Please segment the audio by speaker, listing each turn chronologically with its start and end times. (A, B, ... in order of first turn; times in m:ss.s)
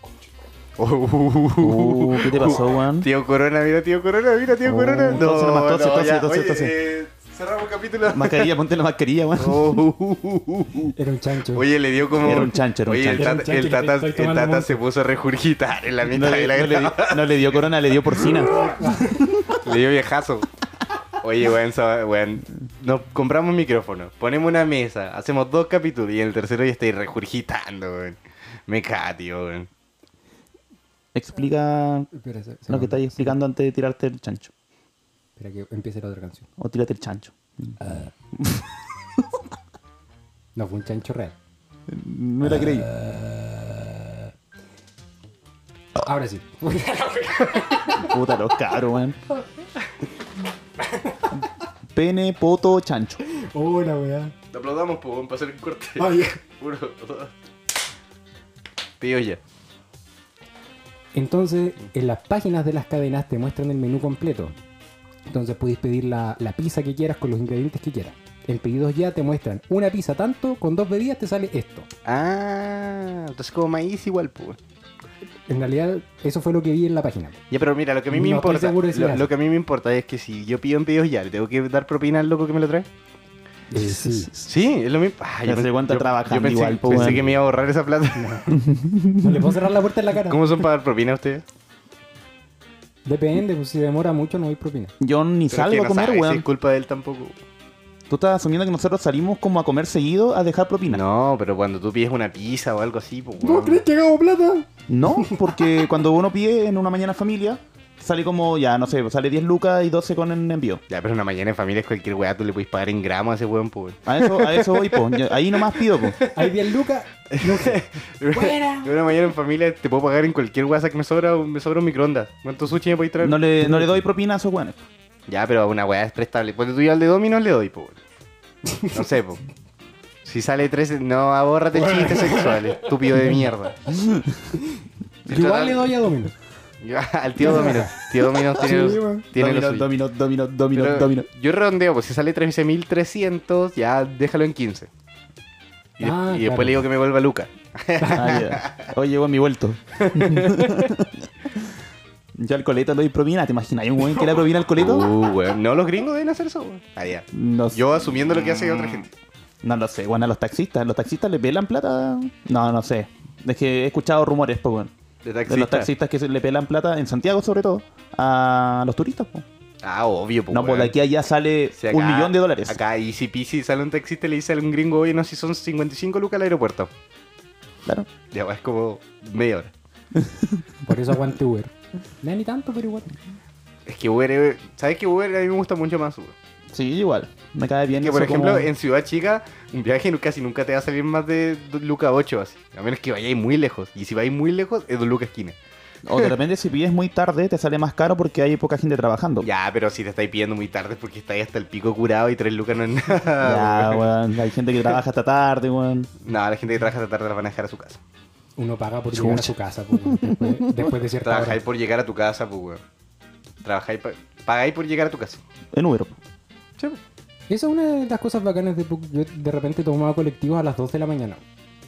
0:00.8-0:08.5 A
0:01.6-0:03.1 B
0:04.6-0:06.7 B
0:08.1-0:09.8 B
0:09.4-0:10.9 A
0:10.9-0:11.6 C
0:11.5-0:17.3 A
0:12.2-0:13.3 B
0:13.1-0:14.8 C
0:16.1-0:18.8 B
0:18.6-0:19.4 C
0:19.5-0:20.5 A
0:21.2-0:29.7 A
0:31.1-0:32.1 B
0:32.1-0:33.4 C
0:32.7-0:34.5 B
0:35.4-0:36.4 C
0:36.6-0:37.8 B
0:37.8-0:38.1 C
0:38.3-0:38.6 B
0:40.6-0:41.3 C
0:41.9-0:42.9 B
0:42.5-0:44.3 C
0:46.0-0:48.1 C
0:47.9-0:49.2 B
0:50.9-0:51.3 C
0:51.9-0:53.2 B
0:53.3-0:54.3 C
0:54.5-0:57.3 A
0:56.0-0:56.4 C
0:59.0-0:59.4 A
1:01.1-1:04.5 C
1:05.3-1:11.9 C
1:12.0-1:14.6 A
1:15.5-1:17.4 C
1:17.5-1:22.9 A
1:18.1-1:19.3 C
1:23.7-1:24.3 C
1:24.3-1:28.3 A
1:25.4-1:27.3 B
1:28.2-1:28.6 C
1:28.5-1:29.5 B
1:29.2-1:30.4 C
1:30.3-1:31.4 A
1:33.0-1:34.9 C
1:35.0-1:36.4 B
1:35.5-1:37.4 A
1:38.1-1:41.0 B
1:40.9-1:43.8 A
1:43.4-1:45.7 C
1:44.9-1:50.8 B
1:50.9-1:56.5 A
1:54.0-1:56.2 B
1:56.3-1:58.9 C
1:57.3-2:03.4 A
2:03.2-2:04.8 B
2:03.6-2:04.0 C
2:05.3-2:08.0 A
2:08.7-2:09.0 C
2:08.9-2:09.4 A
2:10.2-2:13.8 A
2:11.7-2:13.4 C
2:14.6-2:16.3 C
2:15.3-2:15.9 A
2:16.8-2:19.9 A
2:17.4-2:18.0 C
2:18.6-2:19.3 C
2:19.3-2:21.3 B
2:20.7-2:24.9 A
2:26.0-2:28.9 A
2:26.0-2:26.8 C
2:28.0-2:28.3 C
2:28.1-2:31.7 B
2:30.0-2:30.9 A
2:32.4-2:35.1 B
2:34.8-2:39.1 A
2:37.3-2:38.0 B
2:39.6-2:44.9 B
2:45.2-2:45.9 A
2:45.5-2:49.4 B
2:49.8-2:50.9 A
2:50.5-2:52.8 B
2:51.8-2:56.9 A
2:58.3-2:59.7 A
3:00.2-3:00.6 B
3:00.8-3:03.1 C
3:03.8-3:06.3 A
3:06.7-3:08.7 B
3:08.0-3:15.6 A
3:16.0-3:19.5 B
3:19.4-3:24.1 A
3:23.4-3:26.1 B
3:26.2-3:28.0 A
3:28.6-3:31.6 C
3:29.1-3:30.9 B
3:31.2-3:32.8 A
3:33.6-3:35.4 A
3:35.7-3:36.2 B
3:37.5-3:41.4 C